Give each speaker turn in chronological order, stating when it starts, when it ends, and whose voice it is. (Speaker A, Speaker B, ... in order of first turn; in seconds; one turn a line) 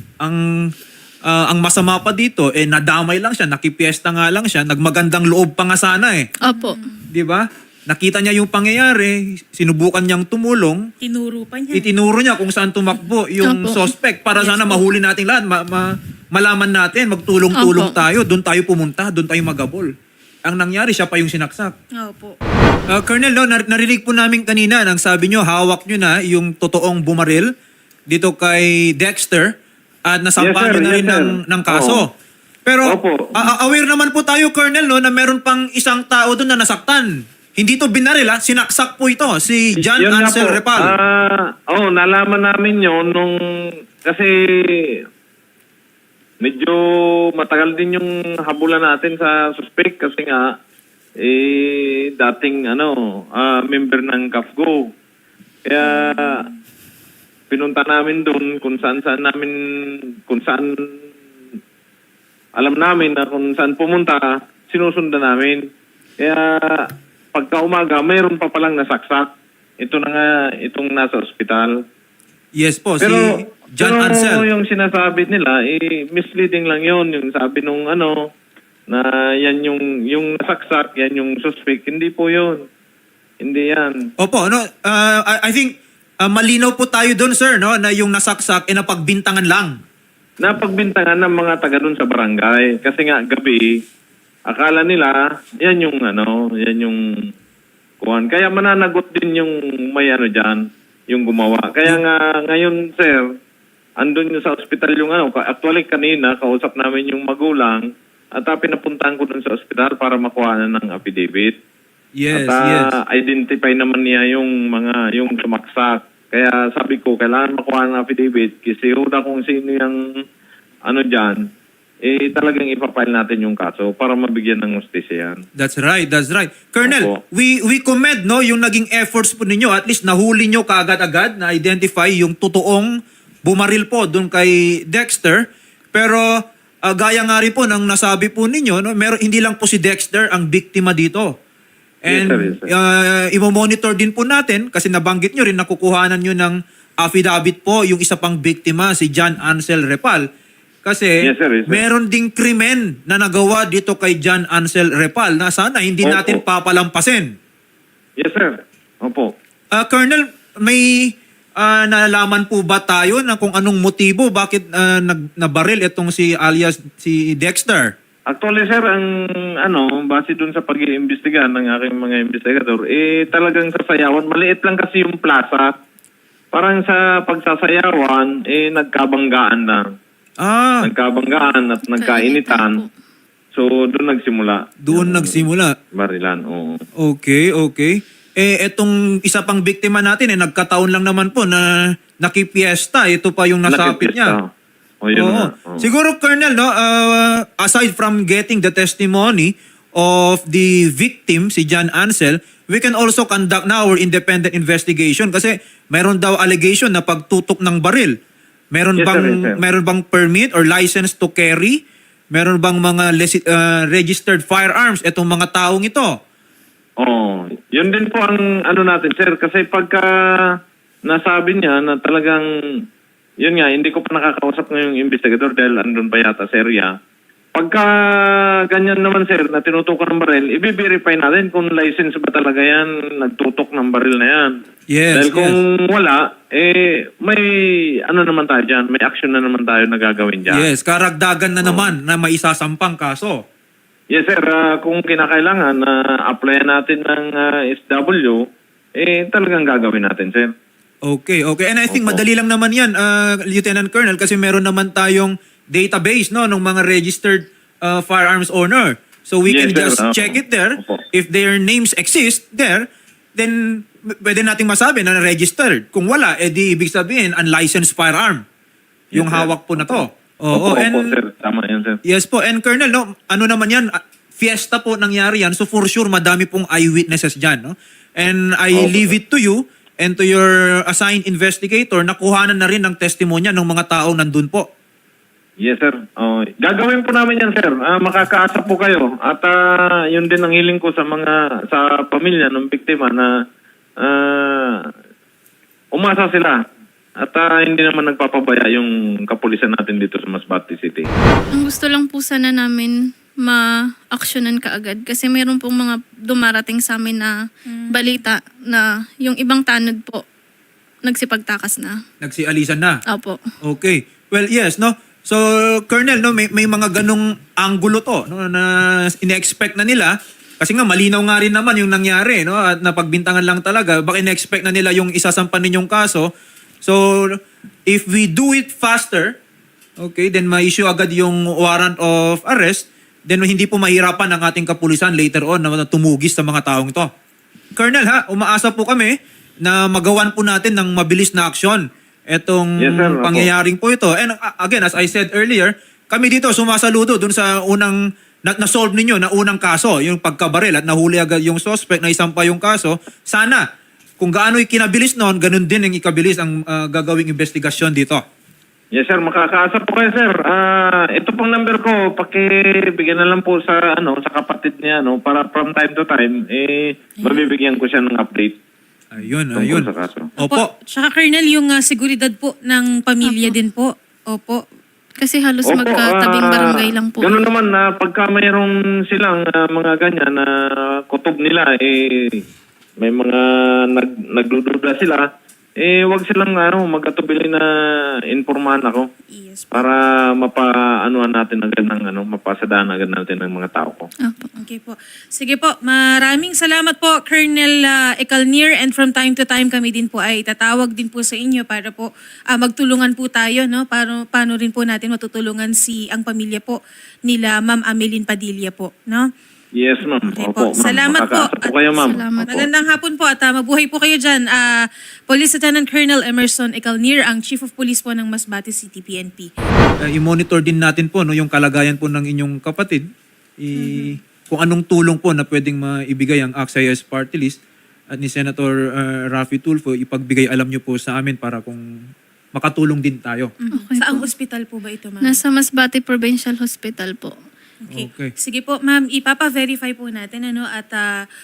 Speaker A: 0.2-0.7
Speaker A: 1.3-6.3
Speaker B: 6.4-6.8
Speaker C: 6.5-7.0
Speaker A: 7.1-10.8
Speaker C: 11.0-11.9
Speaker A: 11.7-19.9
Speaker B: 13.4-13.9
Speaker C: 14.3-14.8
Speaker B: 17.6-18.0
Speaker A: 20.4-21.7
Speaker C: 22.0-22.3
Speaker A: 22.9-27.5
Speaker A: 28.1-29.5
Speaker A: 30.1-32.1
Speaker D: 30.4-32.0
Speaker A: 32.6-40.9
Speaker D: 32.9-33.3
Speaker D: 39.8-43.4
Speaker D: 44.0-44.3
Speaker D: 46.4-46.8
Speaker D: 47.4-50.5
Speaker D: 51.2-54.9
Speaker D: 55.6-56.5
Speaker C: 55.8-56.5
Speaker D: 57.5-59.5
Speaker D: 60.3-60.7
Speaker D: 62.6-65.6
Speaker D: 66.2-69.3
Speaker D: 69.8-71.7
Speaker A: 72.6-74.4
Speaker D: 73.0-78.2
Speaker D: 78.9-82.7
Speaker D: 83.4-84.0
Speaker A: 84.2-89.8
Speaker D: 90.4-93.7
Speaker D: 94.5-97.0
Speaker D: 98.0-103.2
Speaker D: 104.0-107.8
Speaker D: 108.3-111.5
Speaker A: 112.2-112.9
Speaker D: 112.3-120.0
Speaker D: 120.8-121.4
Speaker D: 122.0-125.4
Speaker A: 125.5-136.2
Speaker D: 126.9-127.2
Speaker A: 136.8-141.3
Speaker A: 142.0-150.2
Speaker D: 142.1-142.7
Speaker A: 150.8-157.3
Speaker D: 151.2-151.8
Speaker D: 156.0-156.4
Speaker D: 158.2-159.3
Speaker A: 159.7-167.9
Speaker D: 168.3-169.1
Speaker D: 169.6-175.7
Speaker D: 176.5-179.8
Speaker A: 180.4-180.9
Speaker D: 180.8-182.8
Speaker B: 181.8-182.9
Speaker D: 183.5-185.4
Speaker A: 184.8-185.7
Speaker D: 185.9-186.8
Speaker A: 187.0-194.3
Speaker D: 193.7-194.5
Speaker D: 195.0-195.9
Speaker A: 195.2-208.1
Speaker A: 208.7-211.8
Speaker D: 209.0-209.6
Speaker A: 212.3-216.1
Speaker D: 217.0-220.1
Speaker D: 221.1-222.4
Speaker D: 223.4-226.9
Speaker D: 227.5-234.5
Speaker A: 234.9-235.6
Speaker D: 235.1-240.6
Speaker A: 240.5-243.4
Speaker D: 244.1-248.4
Speaker D: 249.0-250.5
Speaker A: 251.1-268.4
Speaker D: 251.9-252.2
Speaker D: 259.5-261.0
Speaker D: 269.1-272.0
Speaker A: 269.1-271.1
Speaker A: 272.0-284.6
Speaker D: 278.7-279.1
Speaker D: 285.6-289.6
Speaker D: 290.1-293.3
Speaker D: 294.0-294.8
Speaker D: 295.9-296.6
Speaker D: 297.2-301.1
Speaker B: 301.6-307.3
Speaker C: 307.7-307.9
Speaker B: 307.9-310.2
Speaker B: 311.1-312.0
Speaker A: 312.2-313.0
Speaker B: 313.1-313.4
Speaker A: 313.6-326.3
Speaker A: 326.8-329.3
Speaker A: 330.0-337.1
Speaker A: 337.8-353.6
Speaker D: 342.8-343.5
Speaker A: 354.2-358.2
Speaker D: 358.9-368.6
Speaker C: 367.2-367.5
Speaker A: 369.1-370.7
Speaker D: 369.5-370.3
Speaker C: 370.4-374.6
Speaker B: 373.2-373.5
Speaker B: 375.2-377.4
Speaker D: 375.7-376.6
Speaker D: 377.2-382.4
Speaker D: 383.0-385.2
Speaker D: 385.8-387.7
Speaker D: 388.3-389.1
Speaker C: 389.3-389.9
Speaker D: 389.7-394.1
Speaker B: 394.2-394.5
Speaker C: 394.6-409.3
Speaker D: 409.7-412.7
Speaker C: 410.3-419.5
Speaker B: 412.0-412.6
Speaker A: 420.0-423.1
Speaker A: 423.6-427.6
Speaker C: 423.8-424.1
Speaker A: 428.1-431.8
Speaker A: 432.5-433.5
Speaker C: 433.6-435.4
Speaker B: 433.7-434.3
Speaker B: 435.2-437.3
Speaker C: 437.9-441.1
Speaker A: 437.9-438.3